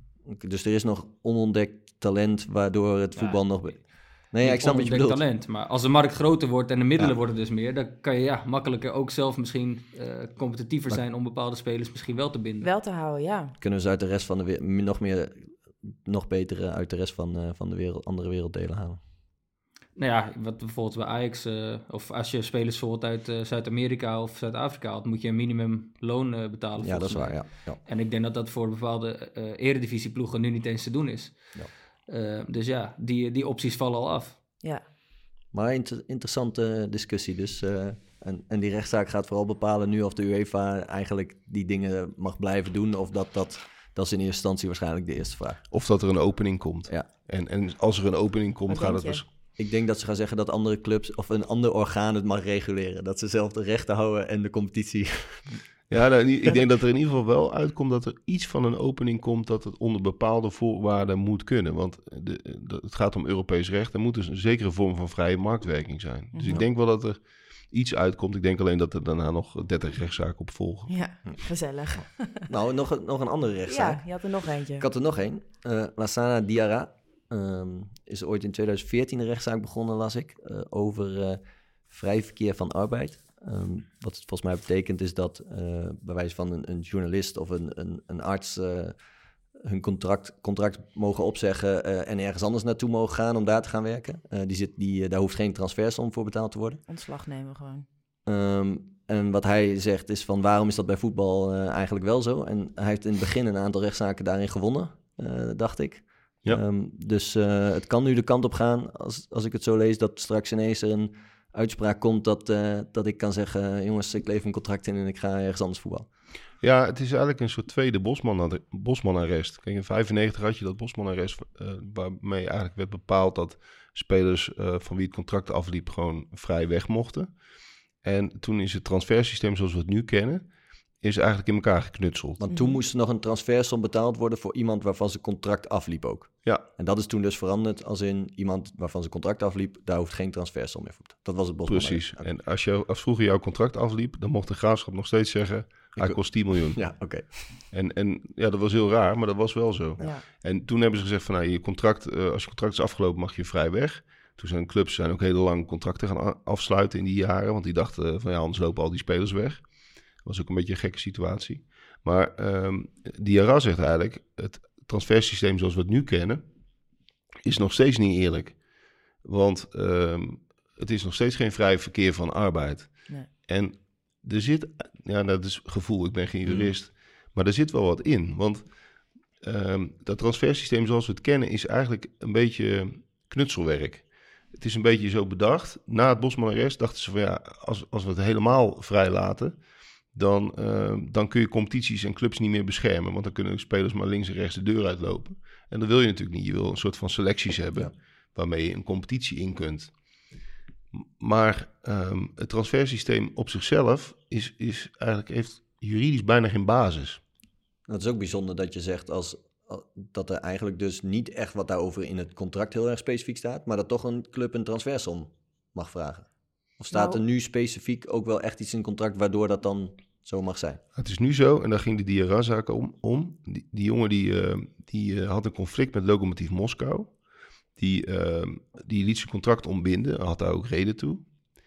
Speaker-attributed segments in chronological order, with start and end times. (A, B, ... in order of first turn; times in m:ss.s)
0:00.3-0:05.2 A
0:03.2-0:12.7 B
0:12.6-0:13.6 C
0:13.6-0:19.0 A
0:20.0-0:34.4 B
0:26.8-0:27.8 A
0:35.5-0:45.6 A
0:45.7-0:49.3 D
0:48.7-0:49.2 C
0:49.6-0:55.6 A
0:55.9-1:10.9 D
1:06.3-1:06.6 C
1:10.9-1:12.5 C
1:12.0-1:14.1 A
1:13.7-1:14.9 C
1:14.8-1:29.0 A
1:29.6-1:36.8 A
1:36.9-1:37.9 C
1:38.3-1:56.1 A
1:56.6-2:07.4 D
2:08.0-2:12.4 D
2:12.4-2:22.3 A
2:12.5-2:12.8 C
2:21.7-2:39.7 D
2:26.0-2:27.5 A
2:30.0-2:30.2 C
2:40.2-2:46.5 D
2:47.4-2:48.7 D
2:49.2-2:58.9 D
2:56.4-2:56.7 A
2:59.4-3:09.6 D
3:10.1-3:19.9 D
3:21.0-3:27.2 D
3:27.9-3:40.8 A
3:36.9-3:37.2 C
3:40.9-3:47.2 D
3:47.8-3:51.3 D